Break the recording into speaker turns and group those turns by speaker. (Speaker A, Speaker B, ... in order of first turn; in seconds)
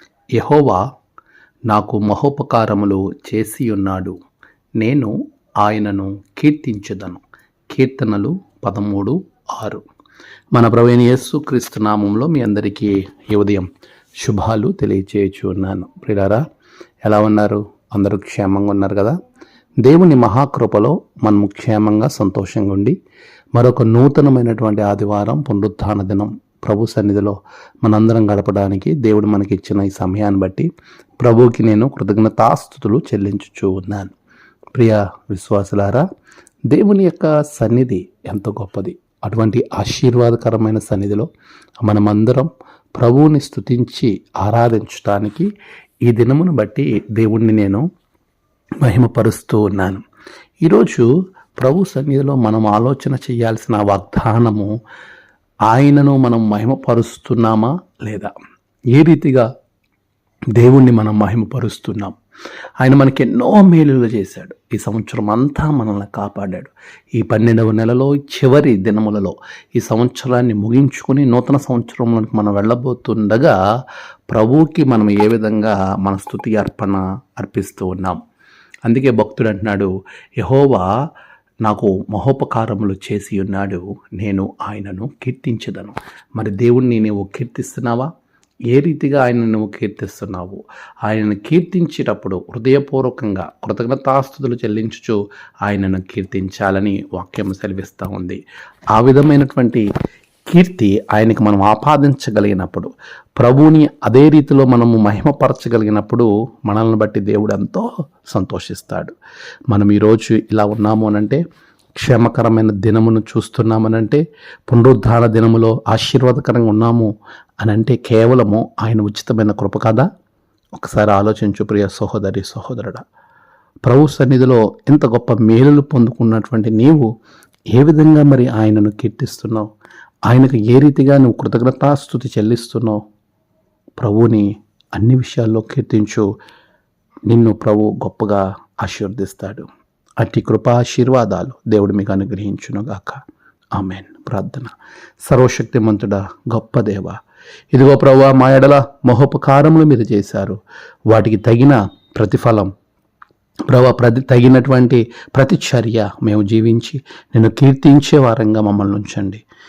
Speaker A: 0.4-0.8, 1.7-4.2, 4.8-9.8, 10.5-13.7, 14.2-16.4, 17.0-19.2, 19.8-22.9, 23.6-30.7, 31.2-34.1, 34.8-36.0, 36.7-41.3, 41.9-45.5, 46.1-47.8, 48.8-50.0, 50.6-51.1, 51.6-54.7, 55.7-58.3, 58.9-59.5, 60.6-62.1, 62.8-73.6, 74.3-78.2, 78.9-80.9, 81.6-88.1, 88.7-98.4, 99.0-99.8, 100.5-109.1, 109.7-111.4, 112.0-117.1, 117.6-120.1, 120.8-123.0, 123.9-127.1, 127.7-129.7, 130.3-133.0, 134.0-136.3, 137.3-139.7, 140.2-143.2, 143.8-144.7, 145.2-147.2, 147.7-150.6, 151.1-152.7, 153.7-159.4